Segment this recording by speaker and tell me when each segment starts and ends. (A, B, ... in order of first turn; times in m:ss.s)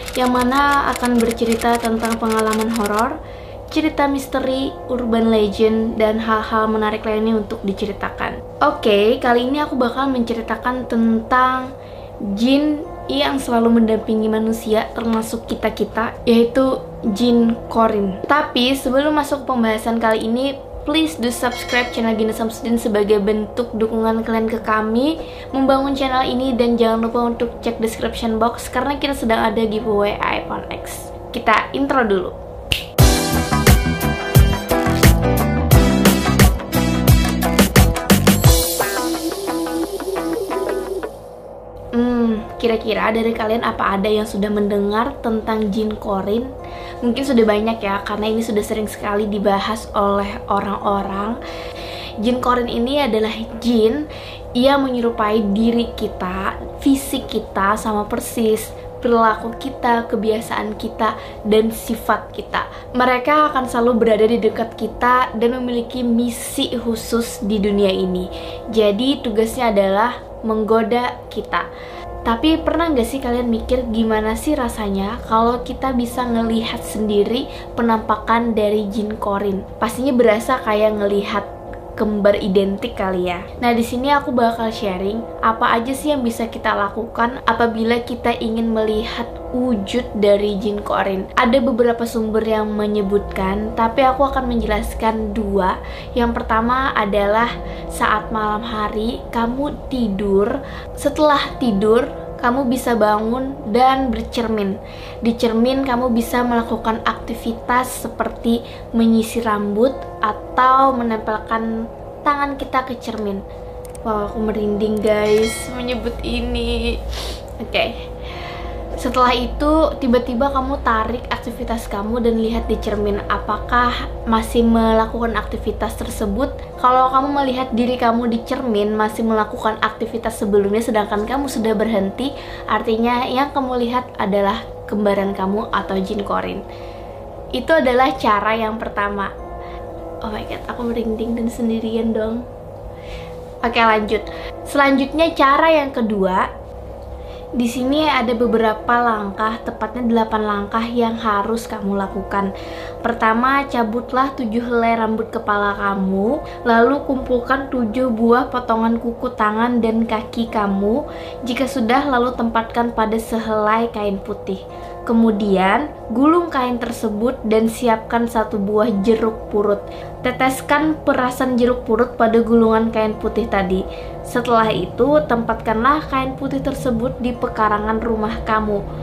0:00.2-0:03.2 A
0:03.7-0:11.7 A
0:12.2-0:32.3 A
0:41.9-0:46.5 A
0:47.0-0:51.4 A
0:52.2-0:54.0 A
0:54.6-1:11.7 A
1:12.2-1:51.7 A
1:52.2-1:53.4 A
1:54.0-1:57.0 A
1:57.6-1:57.9 A
1:59.0-2:16.6 A
2:17.5-2:19.3 A
2:20.2-2:22.4 A
2:23.6-2:26.4 A
2:27.6-2:32.5 A
2:33.0-2:58.8 A